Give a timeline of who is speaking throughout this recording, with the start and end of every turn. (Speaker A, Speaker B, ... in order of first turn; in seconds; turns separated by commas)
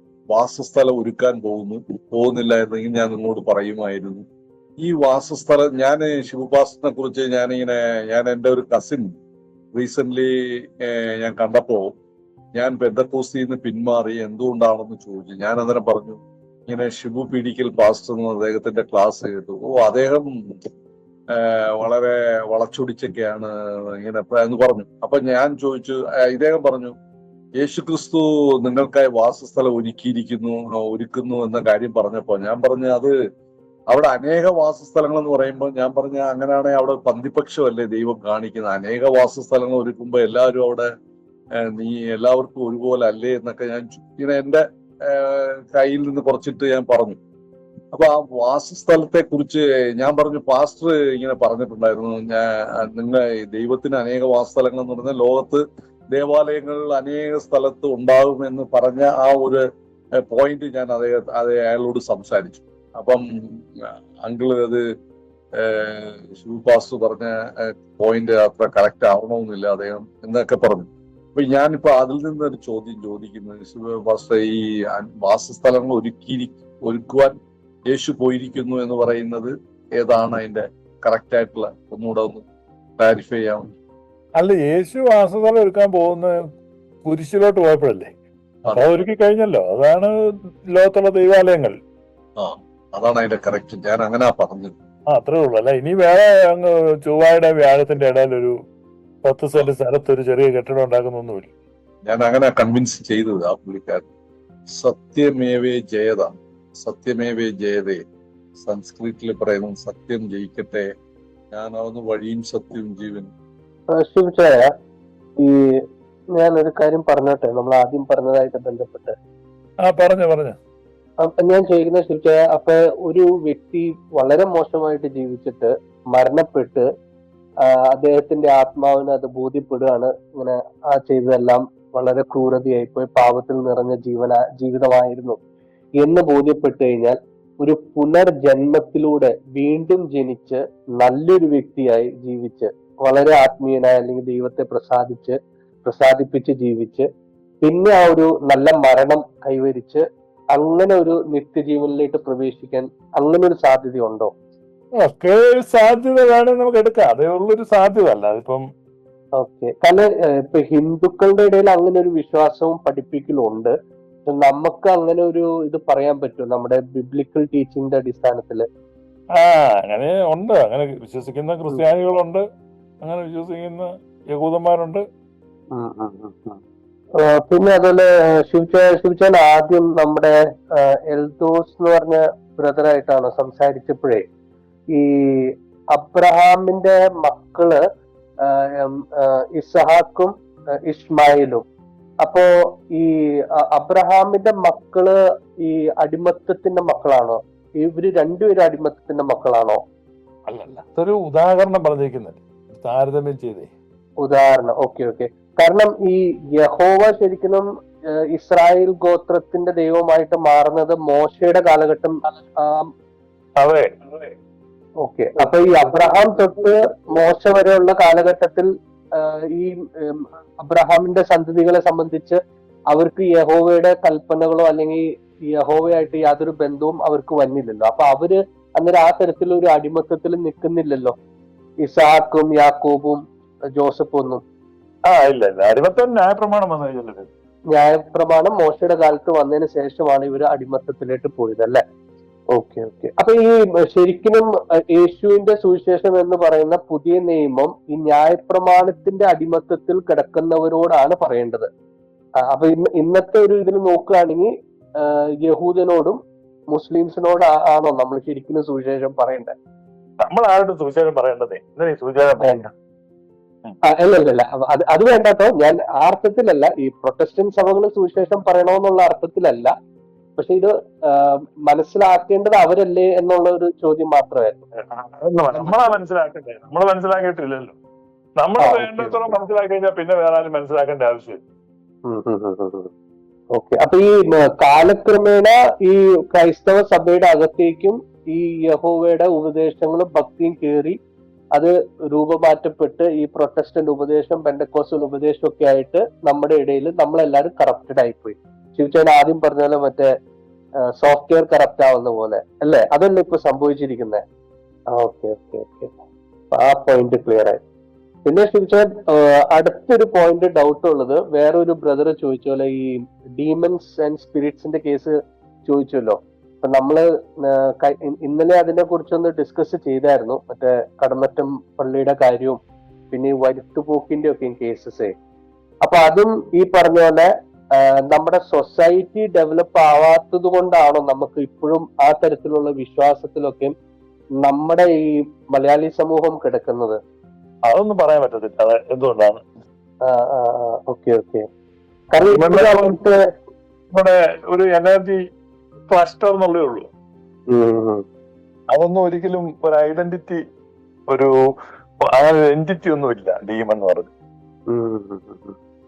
Speaker A: 0.3-4.2, Speaker A: 4.8-9.2, Speaker A: 9.7-10.3, Speaker A: 10.8-11.9, Speaker A: 12.5-20.3, Speaker A: 21.3-26.9, Speaker A: 27.6-33.1, Speaker A: 33.9-40.9, Speaker A: 41.6-47.2, Speaker A: 47.9-59.6, Speaker A: 60.2-63.2, Speaker A: 64.2-64.8, Speaker A: 65.6-77.3, Speaker A: 77.9-82.4, Speaker A: 83.0-83.7, Speaker B: 84.4-86.3, Speaker B: 87.0-88.1, Speaker A: 88.7-89.0, Speaker B: 88.7-90.1, Speaker B: 90.7-91.8, Speaker A: 92.4-94.8, Speaker B: 95.1-98.5, Speaker B: 99.2-101.5, Speaker A: 102.0-104.1, Speaker A: 104.7-108.0, Speaker A: 108.6-110.9, Speaker A: 111.5-113.3, Speaker C: 114.0-114.6, Speaker C: 116.4-119.1, Speaker B: 119.8-120.6, Speaker C: 121.2-126.8, Speaker C: 127.9-135.4, Speaker C: 136.0-147.1, Speaker C: 147.6-154.3, Speaker B: 155.0-158.6, Speaker C: 159.4-163.7, Speaker C: 164.2-168.7, Speaker B: 169.4-172.4, Speaker B: 173.0-175.0, Speaker C: 175.7-176.6, Speaker C: 177.2-184.2, Speaker C: 184.9-187.8, Speaker C: 188.8-190.3, Speaker C: 190.9-191.6, Speaker C: 192.2-193.1, Speaker C: 193.7-199.8, Speaker B: 200.5-203.7, Speaker C: 204.2-207.7, Speaker C: 208.3-212.9, Speaker B: 213.6-214.3, Speaker C: 215.0-222.4, Speaker B: 215.4-216.2, Speaker C: 222.9-231.1, Speaker C: 231.8-233.2, Speaker C: 233.8-234.4, Speaker B: 235.1-237.3, Speaker C: 237.7-241.8, Speaker C: 242.5-251.7, Speaker C: 252.4-256.2, Speaker C: 256.7-259.5, Speaker B: 260.2-262.7, Speaker C: 262.4-262.6, Speaker C: 263.9-269.7, Speaker C: 270.4-274.6, Speaker B: 274.9-277.7, Speaker C: 275.5-276.0, Speaker B: 278.4-281.4, Speaker C: 278.6-279.4, Speaker C: 282.1-282.9, Speaker C: 283.5-290.9, Speaker C: 291.5-300.1, Speaker C: 301.0-304.2, Speaker C: 304.9-305.9, Speaker C: 306.5-307.6, Speaker C: 308.2-315.1, Speaker C: 315.6-322.6, Speaker C: 323.1-325.1, Speaker C: 325.8-327.3, Speaker C: 327.8-333.7, Speaker C: 334.4-337.0, Speaker B: 337.7-339.4, Speaker C: 340.0-341.4, Speaker C: 342.1-343.2, Speaker B: 342.2-343.0, Speaker B: 343.9-345.2, Speaker B: 345.9-346.9, Speaker C: 347.5-348.0, Speaker B: 348.7-350.4, Speaker B: 352.1-354.1, Speaker C: 354.7-355.6